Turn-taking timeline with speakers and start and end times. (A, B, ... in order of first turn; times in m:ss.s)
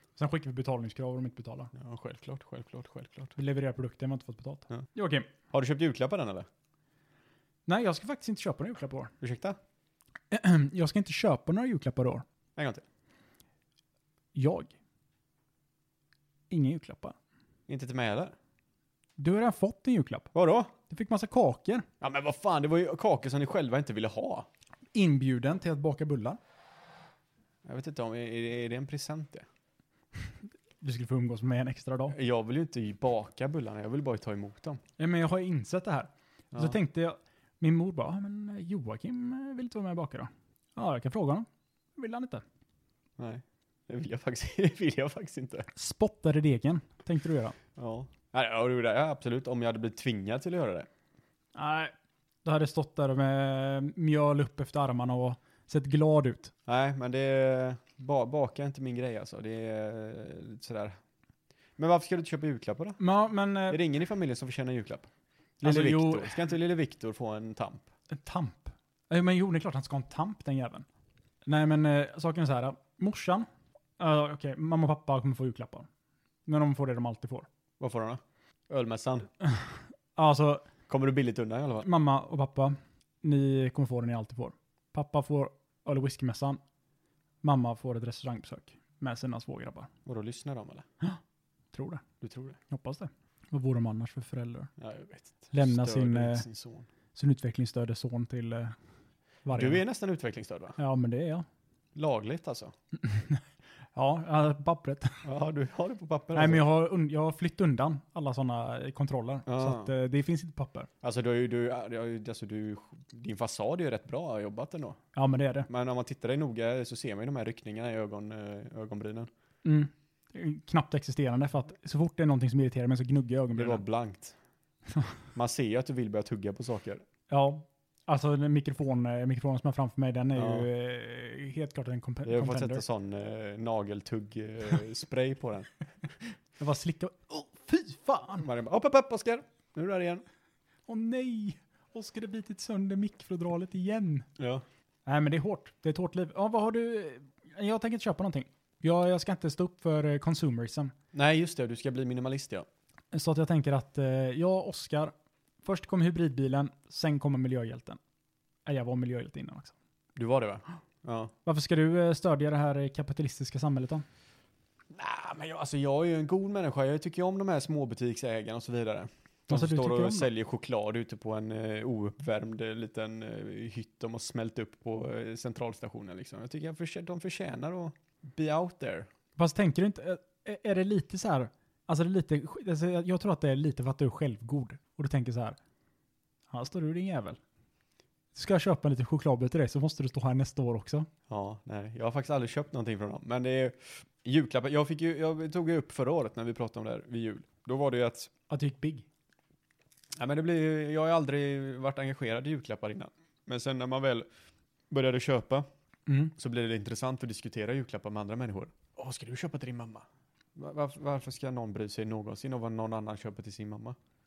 0:00.2-0:01.7 A
0:01.7-0:03.3 B
0:03.4-0:05.3 A
0:05.5-0:06.5 B
0:07.7-0:09.1 A
0:09.2-0:09.6 B
0:10.3-0:12.2 A
0:12.6-0:12.8 B
0:14.4-0:14.7 A
0:16.5-0:17.2 A
0:17.7-0:18.4 B
0:19.2-0:20.3 A
0:20.3-0:20.7 B
0:20.9-0:21.9 A
0:22.0-0:24.5 B
0:24.9-0:26.4 A
0:27.6-0:29.5 B
0:30.8-0:32.2 A
0:32.1-0:34.8 B
0:35.0-0:42.4 A
0:36.5-0:36.8 B
0:43.2-0:45.7 B
0:45.8-0:47.6 A
0:47.8-0:50.9 B
0:51.6-0:51.9 A
0:52.4-0:56.5 A
0:56.7-1:01.0 B
1:01.8-1:03.0 B
1:03.0-1:03.8 A
1:03.7-1:05.1 B
1:05.6-1:07.9 B
1:05.6-1:06.4 A
1:08.1-1:10.9 A
1:11.5-1:13.5 A
1:14.0-1:15.9 A
1:16.5-1:17.5 A
1:17.8-1:19.3 B
1:19.4-1:20.7 A
1:20.9-1:21.9 B
1:21.8-1:26.6 A
1:27.4-1:29.9 A
1:30.0-1:30.9 B
1:31.7-1:32.0 A
1:32.2-1:32.6 B
1:32.7-1:34.7 A
1:34.8-1:36.9 B
1:35.5-1:36.4 A
1:37.2-1:38.8 A
1:39.4-1:39.8 A
1:39.5-1:40.8 B
1:40.8-1:41.5 A
1:42.0-1:42.7 B
1:43.0-1:43.4 A
1:44.0-1:45.2 A
1:45.2-1:46.6 B
1:46.3-1:50.9 A
1:49.5-1:49.9 B
1:51.0-1:55.0 B
1:55.2-1:55.7 A
1:55.7-1:59.3 B
1:59.6-2:03.8 A
2:03.6-2:04.4 B
2:05.4-2:07.0 B
2:07.3-2:12.8 A
2:10.4-2:10.7 B
2:12.2-2:15.7 B
2:16.6-2:18.5 A
2:18.4-2:20.2 B
2:20.9-2:24.3 A
2:24.4-2:24.6 B
2:25.1-2:30.9 A
2:31.1-2:32.7 B
2:33.1-2:38.0 A
2:38.7-2:39.8 A
2:40.2-2:41.3 B
2:41.4-2:44.0 A
2:44.9-2:59.1 B
2:49.5-2:50.3 A
2:59.4-3:05.6 A
3:06.5-3:07.4 A
3:08.3-3:11.1 A
3:11.3-3:18.3 B
3:18.5-3:19.1 A
3:20.2-3:24.3 B
3:24.9-3:25.6 B
3:26.1-3:26.3 A
3:26.4-3:30.0 B
3:30.6-3:34.0 B